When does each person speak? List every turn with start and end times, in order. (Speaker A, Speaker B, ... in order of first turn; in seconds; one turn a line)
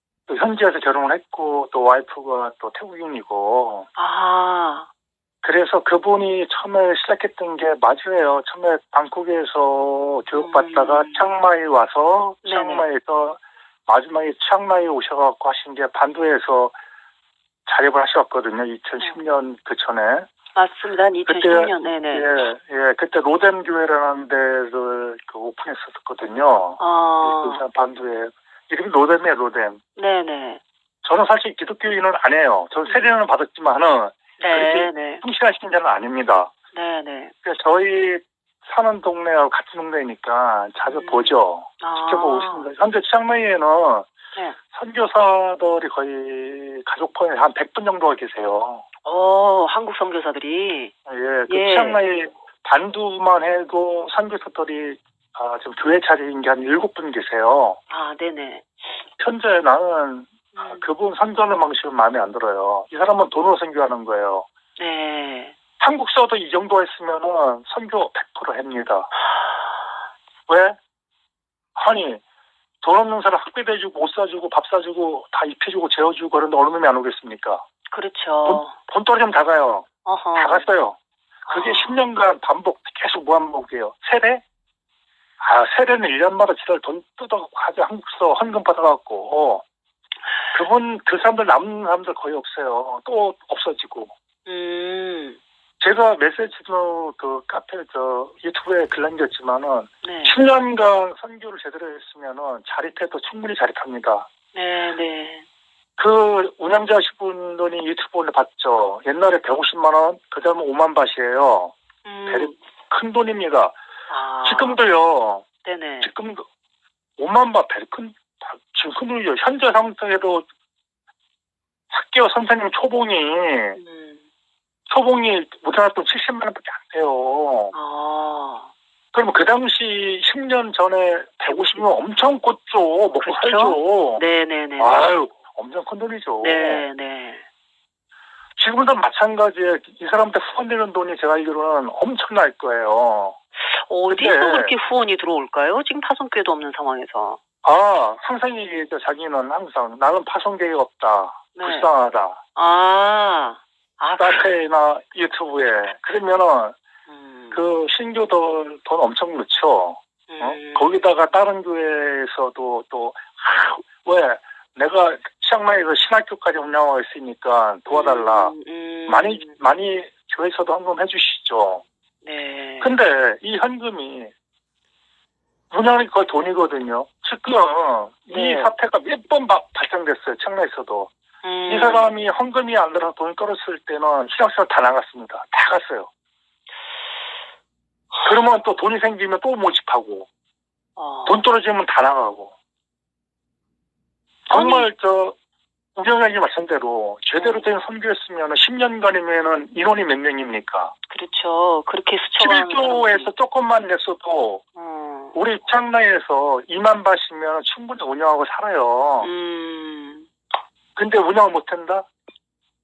Speaker A: 0.3-3.9
Speaker B: 4.0-4.9
Speaker A: 5.4-16.8
Speaker B: 10.3-11.3
Speaker B: 12.4-12.9
Speaker A: 17.7-20.3
Speaker B: 20.6-22.5
Speaker A: 21.2-29.8
Speaker B: 26.8-27.6
Speaker B: 30.0-30.6
Speaker A: 31.0-36.5
Speaker B: 34.4-35.2
Speaker B: 36.7-37.3
Speaker A: 37.4-44.1
Speaker B: 40.8-42.7
Speaker A: 44.7-48.8
Speaker B: 49.0-50.9
Speaker A: 51.1-57.8
Speaker B: 51.5-52.0
Speaker B: 57.9-58.7
Speaker A: 59.2-64.5
Speaker B: 60.5-60.8
Speaker B: 64.8-65.5
Speaker A: 65.8-69.1
Speaker A: 70.5-70.8
Speaker A: 71.8-72.2
Speaker A: 72.8-77.6
Speaker B: 77.9-78.7
Speaker A: 78.5-81.0
Speaker B: 80.0-80.7
Speaker B: 81.5-82.0
Speaker A: 81.5-84.4
Speaker A: 85.4-89.6
Speaker A: 90.5-94.1
Speaker B: 94.5-95.4
Speaker A: 95.8-104.3
Speaker B: 100.0-100.3
Speaker B: 104.5-105.5
Speaker A: 106.0-111.8
Speaker B: 112.0-112.5
Speaker A: 112.3-113.8
Speaker B: 114.1-114.8
Speaker A: 114.4-115.5
Speaker B: 115.7-116.1
Speaker A: 116.0-116.4
Speaker A: 117.2-120.5
Speaker A: 121.9-123.8
Speaker B: 123.8-124.2
Speaker A: 124.9-127.7
Speaker B: 127.7-128.7
Speaker A: 129.1-134.2
Speaker B: 133.2-135.1
Speaker A: 134.8-136.8
Speaker B: 136.4-137.4
Speaker A: 138.6-143.4
Speaker B: 143.7-147.4
Speaker A: 144.1-144.8
Speaker A: 147.6-152.4
Speaker B: 151.6-151.9
Speaker B: 152.6-154.5
Speaker A: 154.2-156.8
Speaker B: 157.1-157.6
Speaker A: 157.5-168.6
Speaker B: 160.3-161.0
Speaker B: 167.9-169.5
Speaker A: 169.1-171.8
Speaker B: 172.2-172.9
Speaker A: 172.8-174.3
Speaker A: 175.7-181.1
Speaker B: 178.3-178.7
Speaker B: 181.4-182.1
Speaker A: 181.7-186.1
Speaker A: 188.2-190.3
Speaker B: 191.0-191.4
Speaker A: 191.3-192.5
Speaker A: 194.5-195.4
Speaker B: 194.5-194.9
Speaker A: 196.0-200.9
Speaker B: 197.4-197.6
Speaker B: 201.1-203.3
Speaker A: 202.4-204.6
Speaker B: 204.8-205.4
Speaker A: 205.3-209.3
Speaker B: 209.2-210.3
Speaker A: 211.0-212.1